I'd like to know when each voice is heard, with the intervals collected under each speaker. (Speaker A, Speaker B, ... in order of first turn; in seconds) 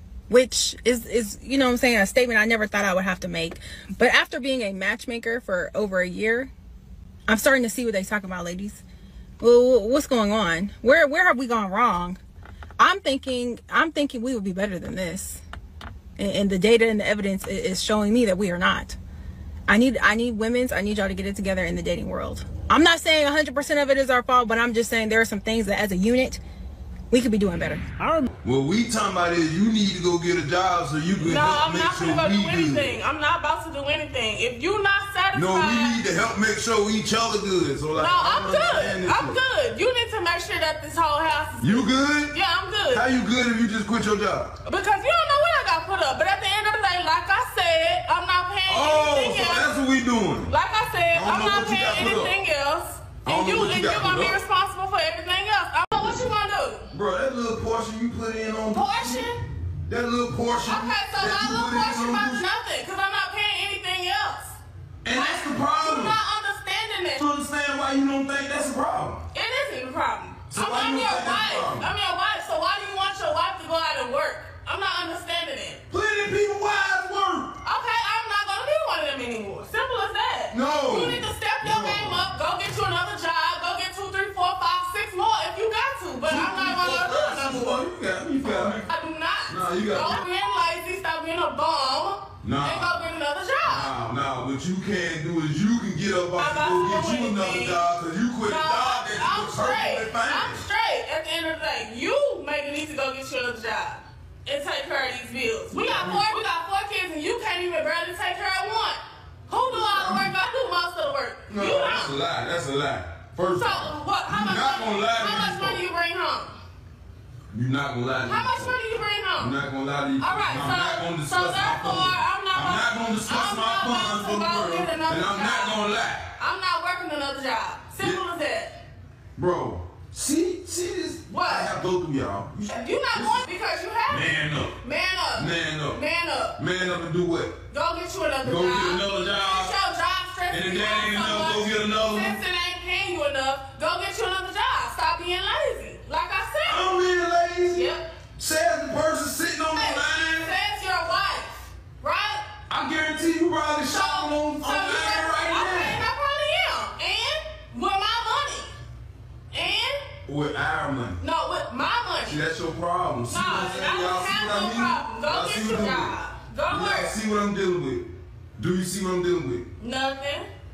Speaker A: 0.3-6.5, 7.3-8.8, 9.4-12.2, 12.8-15.4, 16.2-19.0, 19.7-26.4, 27.1-27.8
Speaker B: 28.4-33.0, 35.4-39.4, 41.6-42.3, 42.9-44.6, 48.7-50.5, 51.1-52.4, 53.3-54.4, 56.0-56.2, 56.9-59.3, 59.9-62.4, 65.0-66.2, 67.2-69.2, 70.5-71.9, 75.9-77.6, 80.5-82.3, 86.3-88.9, 89.5-90.2, 92.4-93.1, 93.7-100.7, 106.0-106.2, 109.9-110.3, 111.5-115.8, 117.5-118.8, 119.4-126.3, 129.4-133.4, 134.1-134.8, 135.4-136.0, 136.6-137.6, 138.4-139.7, 140.5-142.4, 146.7-150.5, 152.7-156.0, 160.3-161.2, 162.3-166.2, 166.7-169.7
Speaker C: 31.2-36.2, 38.0-43.1, 44.6-49.8, 50.4-56.9, 58.7-59.4, 60.6-67.2, 69.3-75.8, 77.6-94.0, 96.3-112.2, 113.5-116.6, 118.2-119.6, 120.2-128.8, 131.3-131.8, 132.7-136.6, 137.7-147.0, 147.7-148.1, 149.7-152.4, 153.9-158.7, 159.5-160.1, 161.2-162.5, 163.3-167.2, 169.8-170.5